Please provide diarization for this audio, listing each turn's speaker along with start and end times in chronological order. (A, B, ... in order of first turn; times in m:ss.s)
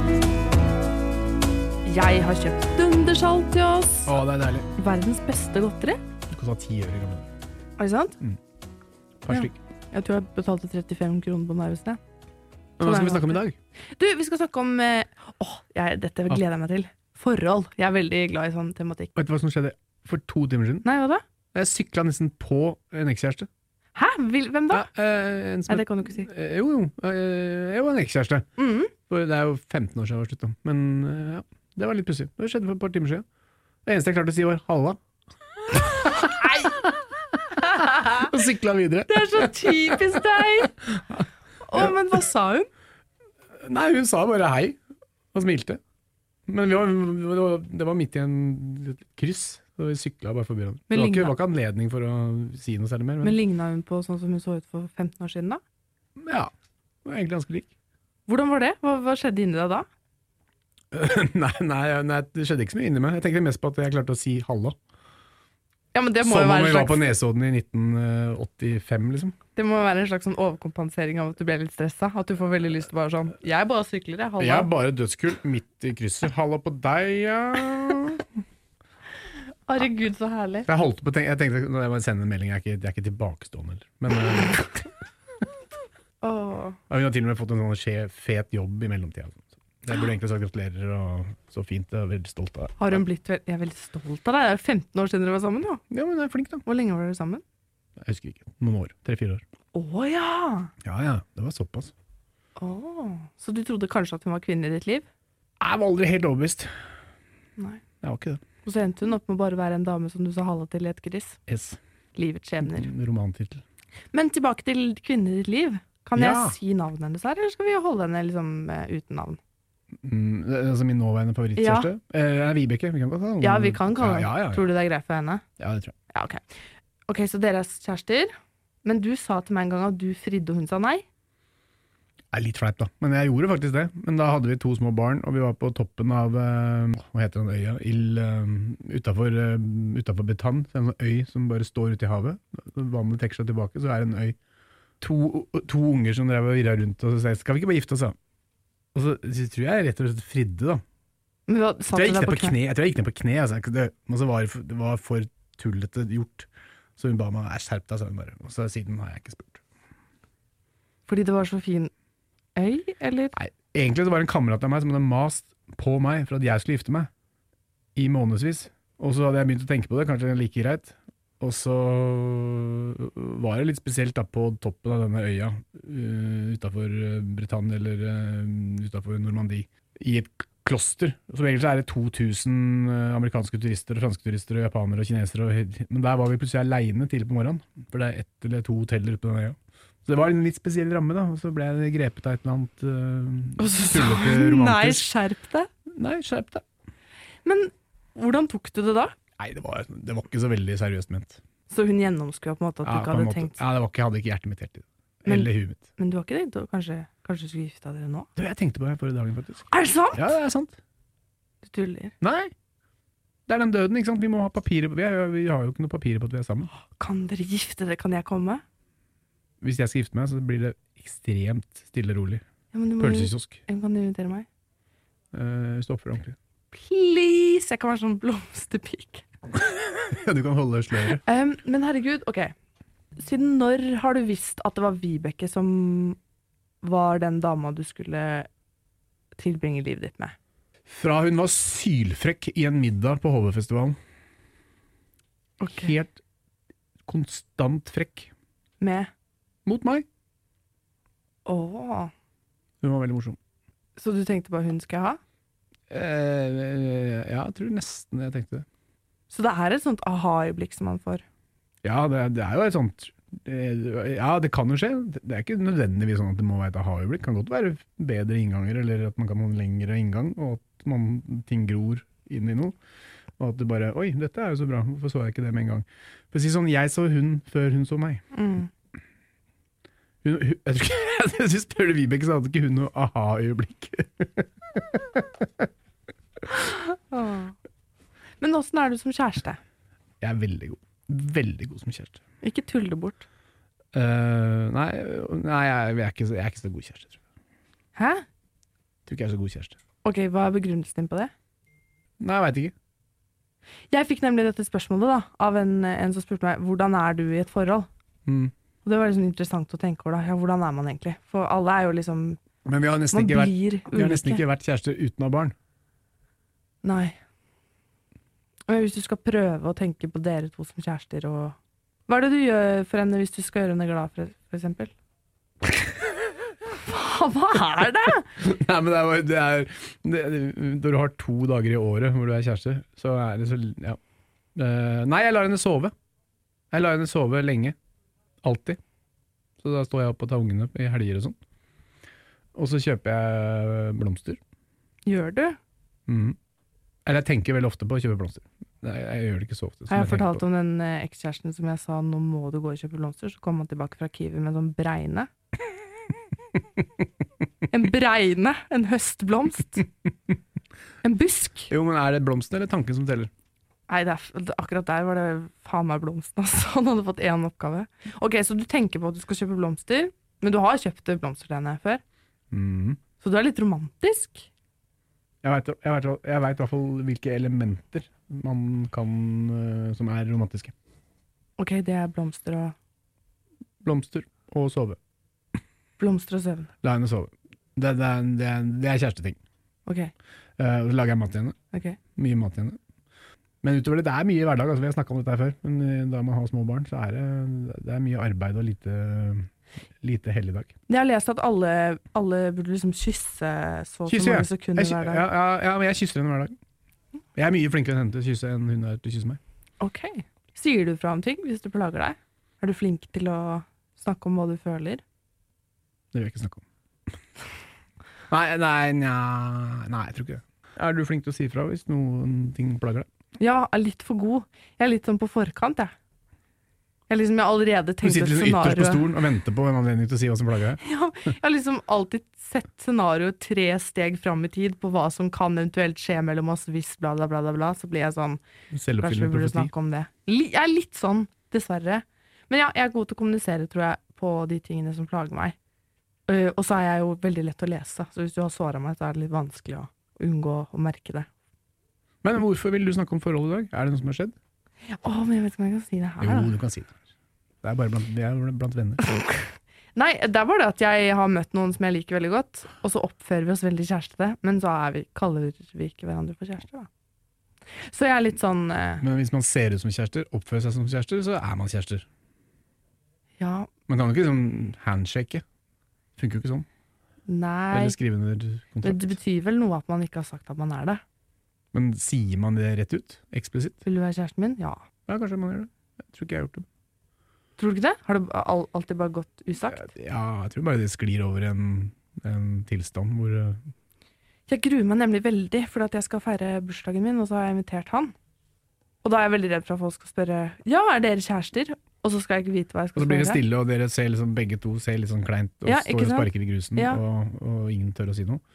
0:01.9-0:04.1 A
0:04.1-0:04.7 B
0:04.8-0:06.0 A
0:06.3-0:07.3 B
0:07.8-0:08.2 A
0:09.2-0:09.6 B
0:09.3-0:12.0 A
0:12.8-0:13.6 B
0:12.8-0:13.4 A
0:14.0-0:19.1 A
0:19.2-0:20.9 B
0:20.8-0:21.2 A
0:21.5-0:23.5 B
0:24.0-0:24.9 A
0:24.7-0:28.5 B
0:25.7-0:26.3 A
0:28.6-0:28.9 A
0:29.1-0:33.2 B
0:33.8-0:35.0 B
0:35.7-0:42.2 B
0:37.7-0:38.3 A
0:39.1-0:40.7 A
0:41.6-0:42.7 A
0:43.6-0:44.8 B
0:45.3-0:45.8 B
0:46.5-0:53.4 B
0:50.9-0:51.4 A
0:53.2-0:55.6 A
0:56.2-0:56.5 B
0:57.0-0:57.7 B
0:58.3-0:59.9 A
1:00.9-1:04.8 B
1:05.9-1:07.0 A
1:06.2-1:09.4 B
1:09.6-1:14.7 A
1:14.4-1:18.3 B
1:19.7-1:20.7 A
1:20.7-1:24.8 B
1:26.2-1:26.8 A
1:26.9-1:33.0 B
1:32.8-1:35.8 A
1:35.9-1:36.6 B
1:36.6-1:37.4 A
1:38.0-1:39.4 B
1:39.7-1:40.7 A
1:40.8-1:41.9 B
1:42.6-1:45.1 A
1:45.6-1:46.7 B
1:48.0-1:48.4 B
1:48.6-1:51.4 A
1:51.5-1:51.8 B
1:52.2-1:52.9 A
1:52.6-1:53.6 B
1:54.1-1:59.4 A
1:56.2-1:56.6 B
2:00.0-2:04.6 B
2:01.6-2:01.9 A
2:03.4-2:05.4 A
2:05.6-2:06.0 B
2:06.1-2:06.4 A
2:07.1-2:08.3 A
2:08.8-2:11.0 A
2:12.3-2:24.4 B
2:25.0-2:28.2 B
2:28.9-2:30.8 B
2:31.5-2:32.6 A
2:31.9-2:39.6 B
2:41.1-2:41.9 A
2:42.6-2:43.4 A
2:43.3-2:47.1 B
2:48.0-3:15.1 B
3:13.6-3:15.7 A
3:15.9-3:16.6 B
3:17.4-3:19.2 A
3:19.4-3:21.4 B
3:21.7-3:23.6 A
3:22.8-3:25.9 B
3:25.3-3:28.3 A
3:28.4-3:30.8 B
3:29.7-3:30.3 A
3:31.6-3:32.1 A
3:32.2-3:32.5 B
3:33.5-3:36.7 B
3:36.8-3:38.6 A
3:39.6-3:42.4 B
3:42.7-3:44.5 A
3:43.0-3:43.6 B
3:45.3-3:46.4 B
3:46.7-3:49.2 A
3:49.6-3:51.2 B
3:51.2-3:52.5 A
3:53.2-3:56.2 A
3:56.8-3:58.5 A
3:59.4-4:00.4 A
4:00.9-4:04.0 B
4:05.6-4:06.0 A
4:05.8-4:06.2 B
4:07.1-4:08.3 B
4:08.8-4:09.1 A
4:09.7-4:10.1 B
4:11.5-4:12.1 A
4:12.8-4:13.4 B
4:14.0-4:15.2 A
4:15.9-4:18.7 B
4:19.3-4:21.2 A
4:21.8-4:32.8 B
4:33.4-4:38.2 B
4:38.3-4:38.7 A
4:40.2-4:45.7 B
4:46.5-4:47.6 A
4:48.4-4:49.6 A
4:50.2-4:52.2 B
4:52.4-4:53.3 A
4:53.9-4:57.2 B
4:58.0-4:58.2 A
4:59.1-4:59.8 B
5:00.0-5:01.3 A
5:02.2-5:02.7 B
5:03.9-5:07.9 A
5:08.3-5:08.5 B
5:08.8-5:12.4 A
5:12.6-5:15.6 B
5:13.1-5:14.4 A
5:16.8-5:17.2 A
5:18.7-5:24.9 A
5:26.8-5:28.3 A
5:28.4-5:34.0 B
5:34.6-5:35.9 B
5:36.7-5:37.8 B
5:38.4-5:38.8 B
5:39.6-5:41.4 B
5:42.6-5:44.4 B
5:45.1-5:45.6 A
5:46.1-5:46.4 B
5:47.1-5:50.4 B
5:49.9-5:55.3 A
5:57.7-5:59.9 A
6:01.0-6:01.7 A
6:01.7-6:03.3 B
6:03.9-6:12.0 A
6:12.5-6:13.0 B
6:13.2-6:14.5 A
6:15.4-6:20.7 B
6:21.6-6:22.8 A
6:23.8-6:25.0 B
6:26.0-6:26.7 A
6:26.8-6:29.4 B
6:29.9-6:30.1 A
6:30.6-6:31.6 B
6:31.7-6:32.0 A
6:32.2-6:32.8 B
6:33.6-6:39.5 B
6:40.0-6:40.7 B
6:40.9-6:45.3 A
6:44.1-6:46.5 B
6:47.4-6:49.4 B
6:49.8-6:55.0 A
6:56.1-6:56.6 B
6:58.3-7:03.1 B
7:03.4-7:05.9 A
7:07.1-7:09.1 A
7:08.0-7:10.8 B
7:10.8-7:18.4 A
7:18.7-7:19.7 B
7:19.0-7:25.6 A
7:26.3-7:31.3 A
7:32.2-7:34.4 B
7:34.9-7:36.5 A
7:36.2-7:37.0 B
7:37.6-7:39.0 B
7:39.1-7:46.9 A
7:47.8-7:49.0 A
7:49.0-7:52.1 B
7:53.4-7:53.7 A
7:53.9-7:55.4 B
7:56.2-7:56.7 B
7:57.3-7:58.0 A
7:57.7-7:59.2 B
7:58.8-8:01.0 A
8:01.7-8:03.8 B
8:03.8-8:04.8 A
8:05.1-8:06.7 B
8:07.6-8:09.9 A
8:09.7-8:13.6 B
8:14.5-8:18.1 A
8:19.0-8:23.4 A
8:23.0-8:28.4 B
8:25.6-8:27.0 A